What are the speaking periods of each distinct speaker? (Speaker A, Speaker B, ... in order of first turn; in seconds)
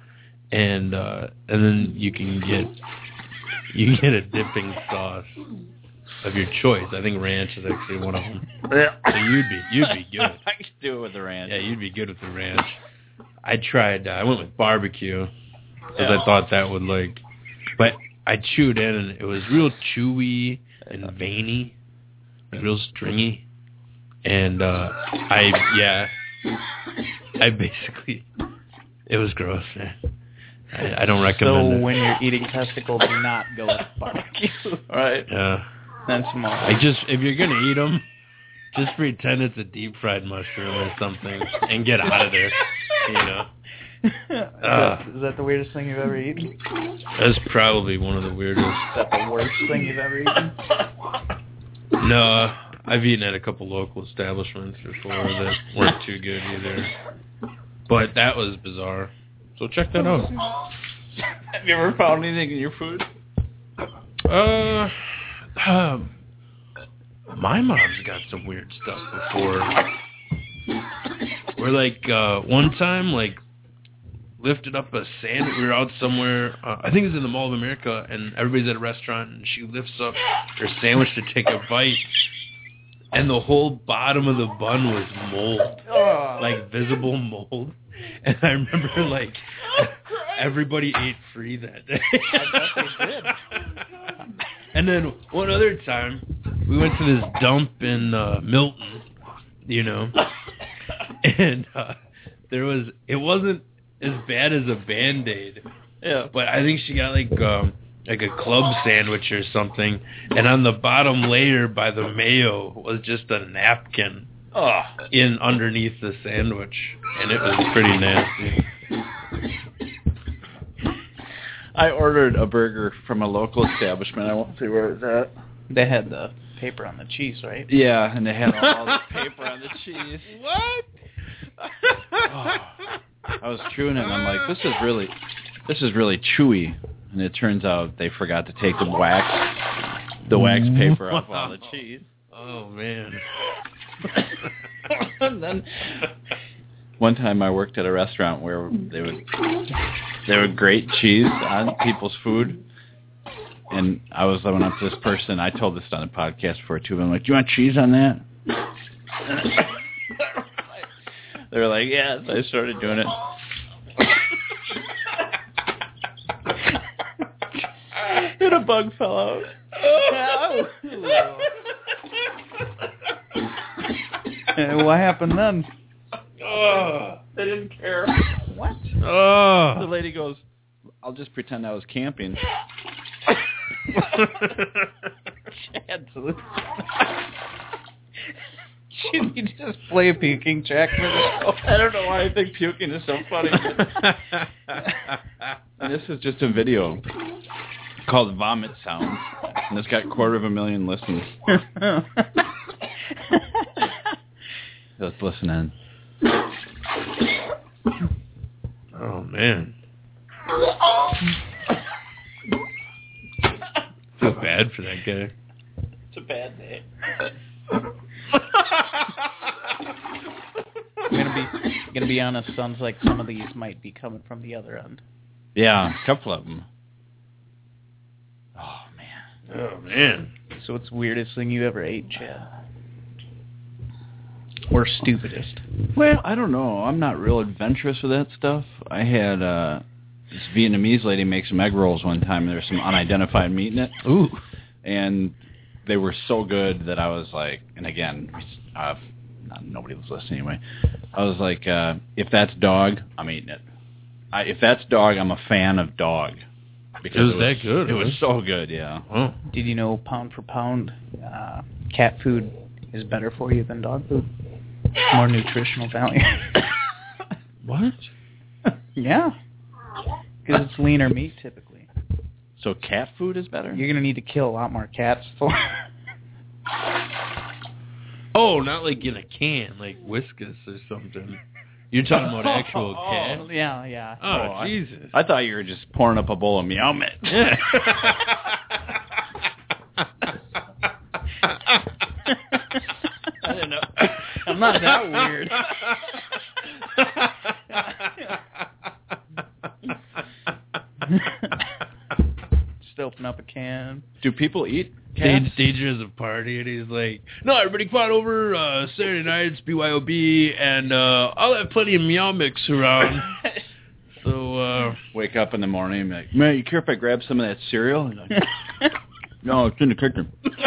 Speaker A: 0.5-2.8, 3.7-5.3, 6.2-8.5, 9.1-10.4, 11.4-12.8, 13.4-15.3, 15.9-17.2, 17.8-21.7, 22.5-23.4, 24.2-26.1, 27.4-28.2, 29.1-30.0, 30.7-31.9, 35.3-35.7, 36.6-38.0, 38.7-43.5, 44.6-45.0, 47.1-48.9, 52.0-56.9, 57.9-60.3, 64.2-66.1, 67.3-69.8, 71.5-73.4, 74.4-82.1, 83.1-85.8, 86.4-93.3, 94.7-99.0, 99.6-100.2, 101.1-102.0, 102.5-105.6, 106.3-114.3, 115.1-118.7, 128.5-129.0, 130.2-130.9, 131.7-132.3, 140.3-141.6, 142.3-143.2, 176.4-177.2, 179.0-179.9, 208.9-209.7, 214.2-215.3, 229.5-230.3, 244.0-244.4, 257.1-258.2, 259.1-259.4, 267.6-268.1, 278.3-283.5, 284.2-285.1, 287.3-288.5, 295.7-295.9, 297.0-298.1, 305.2-313.4, 314.1-315.0
Speaker B: 8.7-9.2, 9.8-11.6, 34.9-35.3, 61.4-63.1, 92.6-93.1, 106.0-106.3, 114.5-115.0, 121.7-125.3, 127.7-130.3, 132.2-139.7, 140.2-142.1, 144.9-146.1, 147.0-149.4, 150.2-152.6, 153.7-158.2, 159.2-160.3, 161.5-163.2, 167.9-169.5, 177.3-178.4, 179.7-180.4, 181.0-182.4, 191.4-194.1, 195.8-197.1, 198.0-201.5, 205.0-205.7, 216.1-216.8, 225.5-226.7, 228.6-229.2, 235.9-244.0, 244.8-250.6, 251.1-253.6, 254.3-256.4, 257.0-259.0, 272.6-273.8, 284.2-288.1, 293.4-294.9, 304.2-305.6, 315.1-318.5, 319.4-320.3
Speaker C: 31.3-34.8, 36.1-36.8, 44.0-46.5, 48.9-50.6, 85.9-86.4, 92.4-93.3, 125.7-127.7, 169.9-171.5, 174.5-175.7, 178.5-178.9, 185.5-186.6, 188.9-191.6, 201.6-202.3, 221.1-225.0, 230.6-232.5, 234.7-235.6, 259.5-264.3, 265.1-266.7, 268.9-269.3, 270.4-271.9, 273.7-275.8, 283.1-284.2, 292.3-292.8, 294.2-295.9, 301.1-301.5, 302.8-304.1